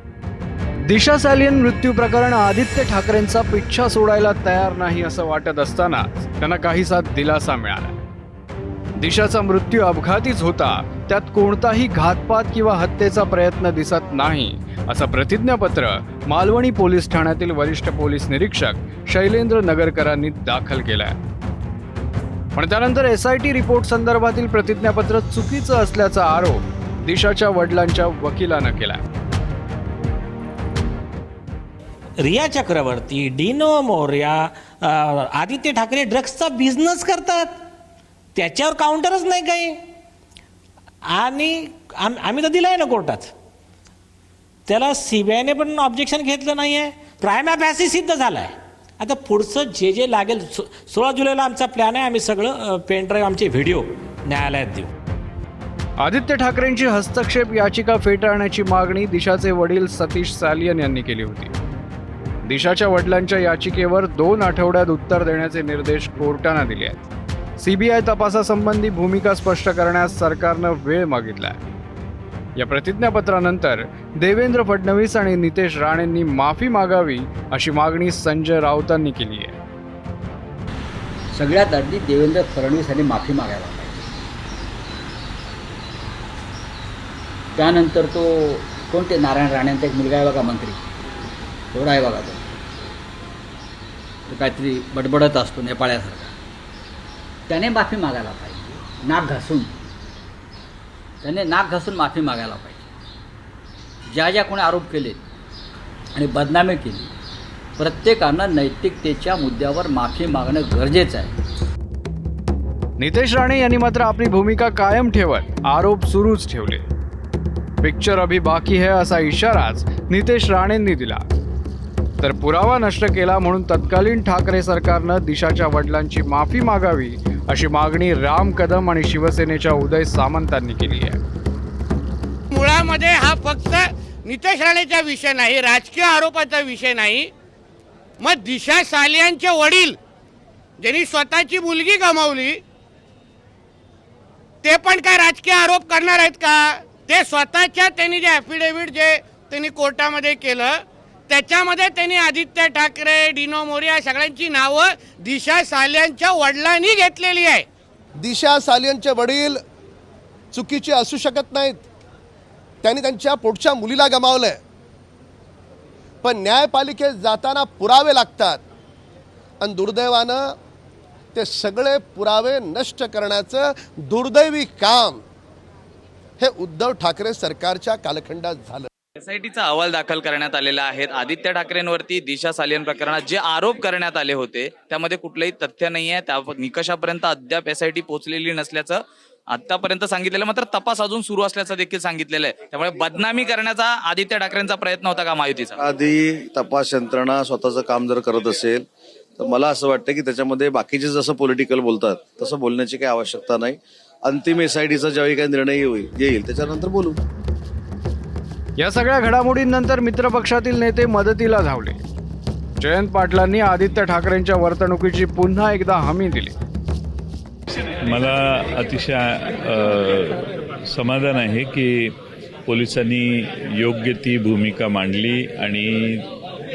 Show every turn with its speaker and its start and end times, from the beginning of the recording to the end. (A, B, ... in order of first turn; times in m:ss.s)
0:00.9-0:08.0 A
0:09.0-0:21.2 A
0:22.6-0:29.0 A
0:32.2-0:37.6 B
0:38.3-0:39.8 B
0:41.0-0:43.3 B
0:44.7-0:54.9 B
0:56.0-1:01.5 A
1:02.4-1:07.0 A
1:07.6-1:11.6 A
1:12.6-1:19.5 A
1:21.3-1:24.1 C
1:27.6-1:30.8 C
1:31.7-1:32.4 C
1:34.3-1:36.3 C
1:37.5-1:39.7 C
1:41.2-1:42.9 C
1:44.1-1:45.2 C
1:46.1-1:47.1 C
1:47.8-1:51.3 C
1:53.0-1:56.9 A
1:57.8-2:01.2 A
2:02.2-2:11.2 A
2:12.5-2:17.3 D
2:18.2-2:20.0 D
2:20.8-2:22.6 D
2:24.6-2:37.7 D
2:38.2-2:39.6 E
2:40.5-2:41.8 E
2:42.8-2:44.6 E
2:46.2-2:48.6 E
2:49.6-2:50.5 E
2:51.3-2:55.2 E
2:56.4-2:58.9 E
2:59.2-3:15.8 F
3:15.8-3:18.8 G
3:19.4-3:27.2 G
3:28.8-3:32.0 A
3:32.8-3:36.5 A
3:38.0-3:42.1 H
3:42.6-3:46.2 H